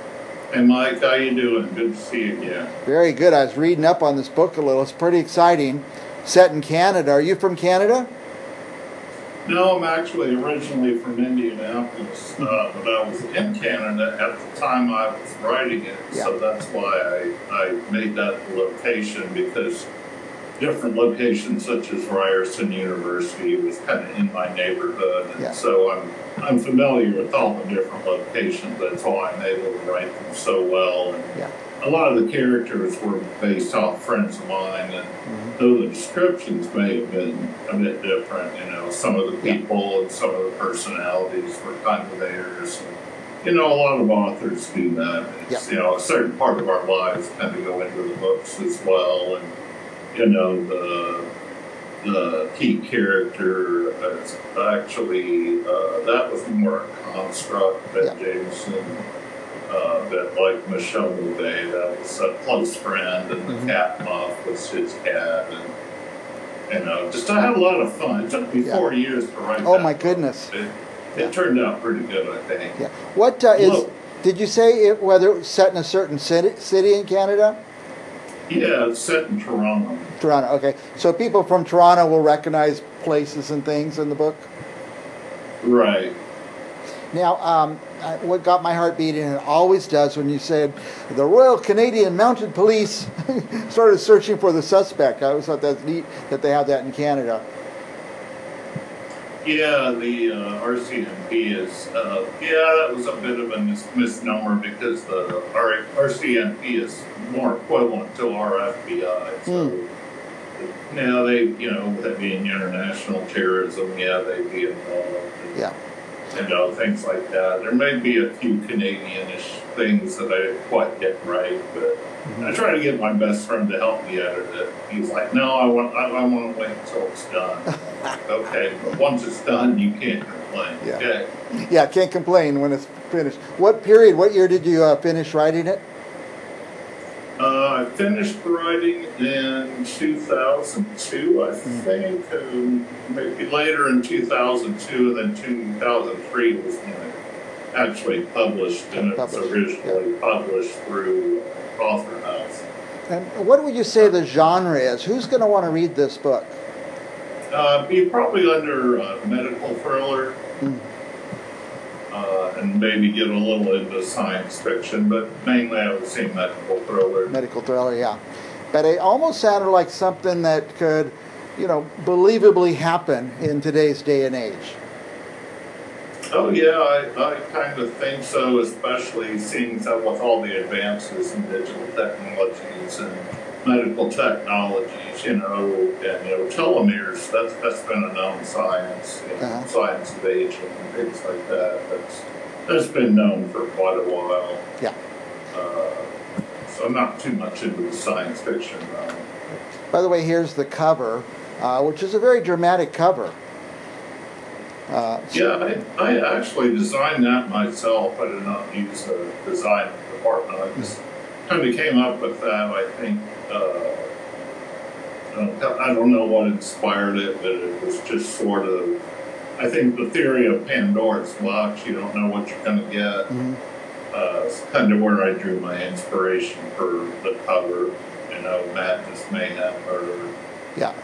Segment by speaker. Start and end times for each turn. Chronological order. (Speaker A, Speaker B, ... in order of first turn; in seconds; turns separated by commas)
Speaker A: 0.5-2.7, Speaker B: 2.9-8.1, Speaker A: 9.5-19.9, Speaker A: 20.6-49.5, Speaker A: 50.1-51.3, Speaker A: 52.0-59.0, Speaker A: 59.7-65.7, Speaker A: 66.7-72.8, Speaker B: 69.6-70.5, Speaker B: 72.8-77.6, Speaker A: 73.6-73.9, Speaker A: 78.5-80.1, Speaker B: 80.2-84.5, Speaker A: 85.6-86.2, Speaker B: 87.1-97.4, Speaker A: 99.4-109.9, Speaker B: 109.5-109.7, Speaker A: 110.6-115.6, Speaker A: 116.3-131.3, Speaker B: 131.6-135.8, Speaker A: 137.4-147.1, Speaker A: 147.7-152.7, Speaker B: 149.0-149.9, Speaker B: 153.1-156.6, Speaker A: 157.5-160.4, Speaker A: 162.1-167.3, Speaker B: 167.3-168.2, Speaker B: 168.7-174.8, Speaker A: 176.3-194.6, Speaker B: 189.4-189.7, Speaker A: 195.5-196.1, Speaker A: 196.7-199.3, Speaker B: 199.9-203.3, Speaker B: 204.9-205.4, Speaker A: 205.3-214.1, Speaker A: 215.3-219.0, Speaker A: 219.6-223.3, Speaker B: 223.3-223.6, Speaker A: 224.1-230.3